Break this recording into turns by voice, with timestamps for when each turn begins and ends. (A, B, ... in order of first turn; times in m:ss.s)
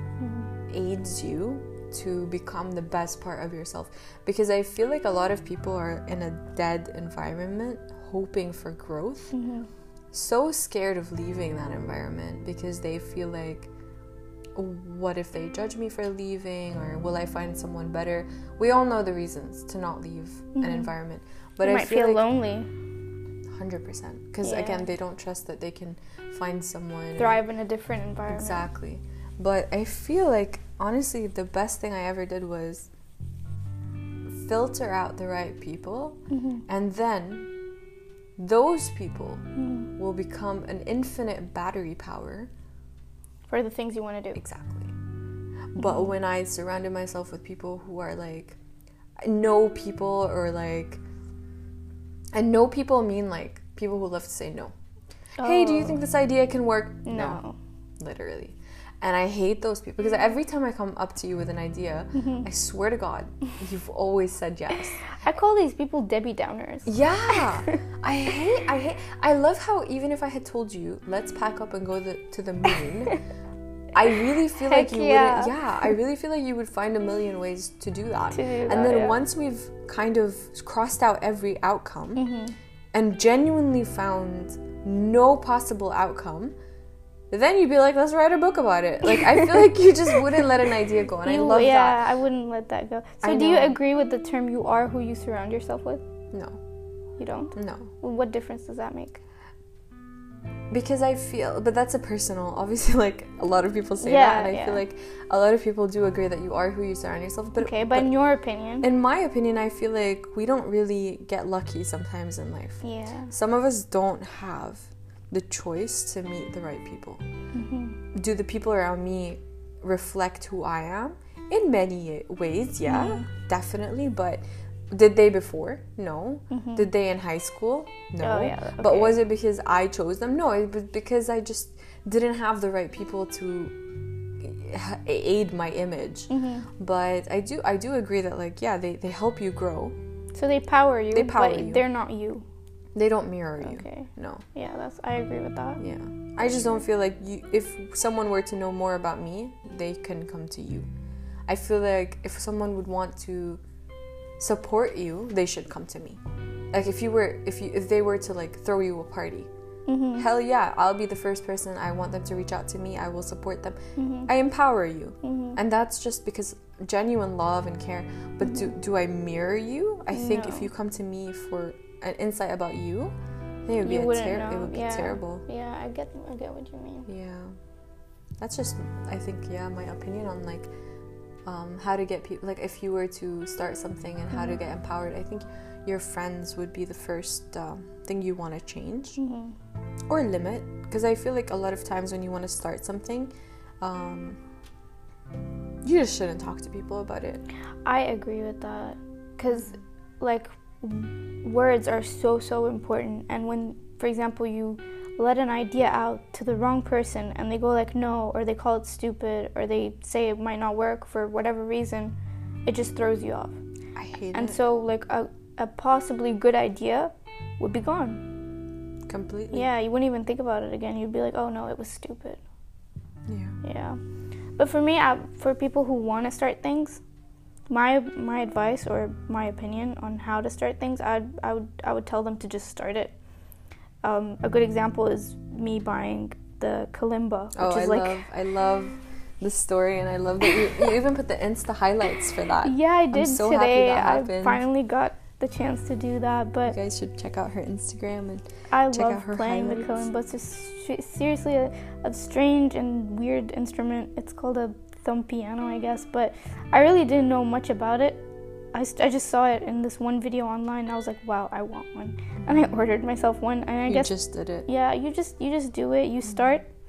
0:00.2-0:00.5 A
0:00.7-0:09.4 B
0:09.3-0:09.7 A
0:10.1-0:13.7 B
0:14.6-0:22.2 B
0:20.6-0:20.9 A
0:21.6-0:22.7 A
0:23.6-0:27.4 B
0:24.4-0:24.9 A
0:27.2-0:28.7 A
0:28.3-0:32.9 B
0:34.3-0:37.5 B
0:36.3-0:36.6 A
0:38.4-0:39.5 B
0:39.6-0:39.9 A
0:40.0-0:42.5 B
0:43.5-0:44.4 A
0:44.4-0:44.9 B
0:45.8-0:48.6 B
0:45.8-0:46.1 A
0:49.2-0:51.0 B
0:52.3-0:54.7 B
0:55.4-0:56.0 A
0:55.4-0:57.4 B
0:57.0-0:57.6 A
0:58.0-1:05.0 B
1:02.2-1:02.5 A
1:05.1-1:07.8 A
1:06.9-1:13.2 B
1:13.9-1:22.2 B
1:14.6-1:15.6 A
1:18.3-1:19.2 A
1:22.2-1:22.6 A
1:22.9-1:26.6 B
1:27.3-1:32.0 B
1:31.2-1:36.0 A
1:33.2-1:33.8 B
1:36.3-1:36.6 B
1:37.2-1:39.2 A
1:37.6-1:37.9 B
1:40.7-1:48.2 B
1:44.0-1:44.8 A
1:47.6-1:48.9 A
1:48.8-1:57.2 B
1:52.8-1:53.3 A
1:57.5-1:58.0 A
1:58.1-2:13.8 B
2:02.8-2:03.3 A
2:06.5-2:06.9 A
2:08.2-2:09.2 A
2:14.4-2:20.0 B
2:16.3-2:16.7 A
2:20.3-2:22.4 A
2:21.1-2:21.8 B
2:23.0-2:24.4 B
2:23.6-2:25.8 A
2:25.8-2:30.9 B
2:26.4-2:26.7 A
2:31.5-2:33.6 B
2:34.4-2:36.2 B
2:36.7-2:39.5 B
2:39.9-2:40.3 A
2:40.2-2:53.2 B
2:44.0-2:44.3 A
2:45.2-2:45.6 A
2:48.4-2:48.7 A
2:50.1-2:50.7 A
2:53.7-2:55.4 B
2:53.8-2:57.1 A
2:57.1-2:57.6 B
2:58.4-3:00.7 B
3:01.5-3:09.2 B
3:09.2-3:09.6 A
3:10.1-3:14.4 B
3:15.8-3:17.4 B
3:17.8-3:33.6 A
3:34.0-3:34.6 B
3:34.3-3:38.2 A
3:39.1-3:39.7 B
3:39.5-3:42.4 A
3:43.3-3:43.6 B
3:43.6-3:44.0 A
3:44.6-3:47.0 A
3:47.7-3:53.2 A
3:54.0-3:58.2 A
3:57.6-4:04.6 B
4:02.6-4:06.8 A
4:06.7-4:10.1 B
4:08.7-4:24.1 A
4:23.9-4:24.7 B
4:24.7-4:26.7 A